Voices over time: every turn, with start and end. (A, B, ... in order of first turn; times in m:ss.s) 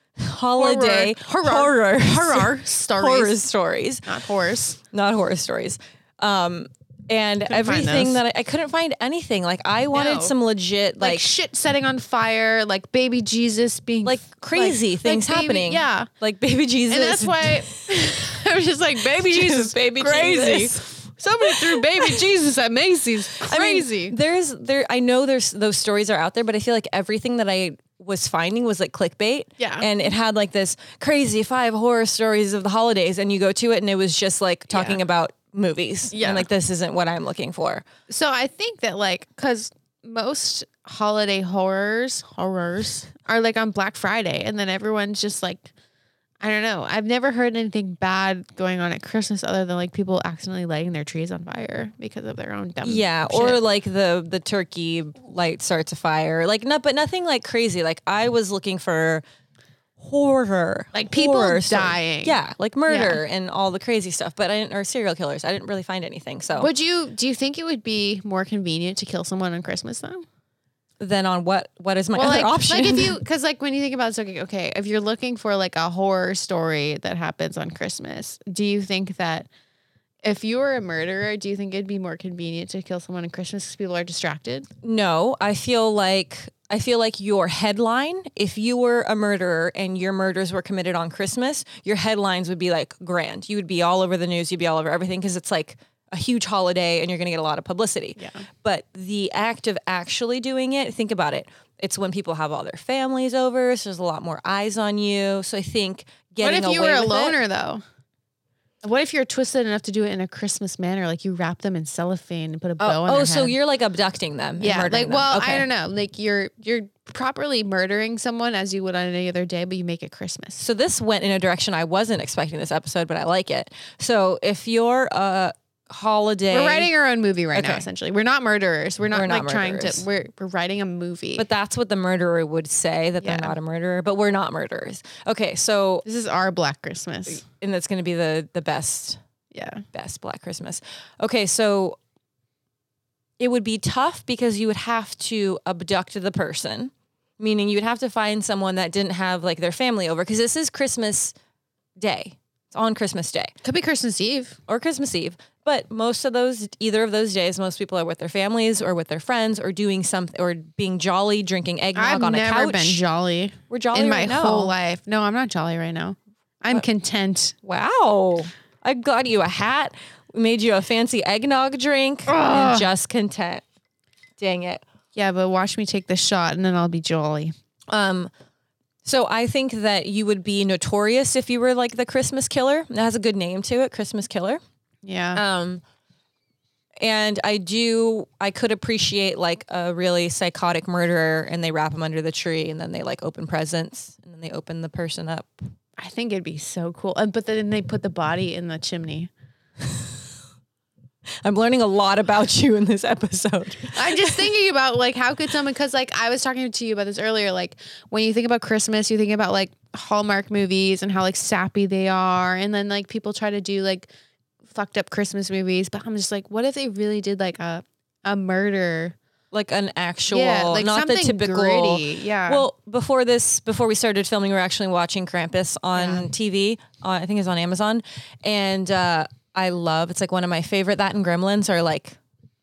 0:00.2-0:04.1 A
0:00.6-0:03.4 B
0:04.0-0:04.8 B
0:04.9-0:11.3 A
0:07.5-0:08.2 B
0:09.9-0:10.3 B
0:11.0-0:16.1 B
0:14.0-0:17.7 A
0:16.9-0:24.1 B
0:19.1-0:20.9 A
0:21.4-0:22.2 A
0:23.3-0:37.8 A
0:29.6-0:29.9 B
0:34.7-0:35.0 B
0:36.1-0:36.5 B
0:38.1-0:45.7 B
0:46.4-0:53.6 B
0:52.8-0:59.2 A
1:00.0-1:06.7 A
1:00.9-1:03.2 B
1:06.6-1:10.2 B
1:11.0-1:13.2 A
1:12.1-1:19.5 B
1:20.2-1:24.7 B
1:24.8-1:47.4 A
1:38.2-1:38.4 B
1:46.4-1:47.8 B
1:48.8-1:53.6 B
1:52.8-1:55.7 A
1:54.6-2:00.6 B
2:00.6-2:06.9 A
2:06.5-2:11.4 B
2:07.5-2:07.8 A
2:09.1-2:10.0 A
2:11.4-2:16.0 A
2:13.2-2:13.5 B
2:16.0-2:17.4 B
2:17.3-2:19.2 A
2:19.5-2:19.8 B
2:19.9-2:22.0 A
2:23.4-2:31.3 A
2:32.0-2:33.5 A
2:33.6-2:34.6 B
2:34.7-2:43.0 A
2:41.9-2:47.6 B
2:43.7-2:44.7 A
2:47.6-2:53.6 A
2:52.3-2:52.9 B
2:54.4-2:54.8 A
2:55.1-2:57.5 B
2:57.9-2:58.3 A
2:59.0-3:04.6 A
3:05.0-3:05.4 B
3:05.3-3:05.8 A
3:07.0-3:15.5 A
3:16.0-3:19.3 B
3:21.4-3:24.5 A
3:23.9-3:34.1 B
3:34.7-3:39.2 B
3:39.5-3:52.2 A
3:40.3-3:42.6 B
3:46.0-3:46.3 B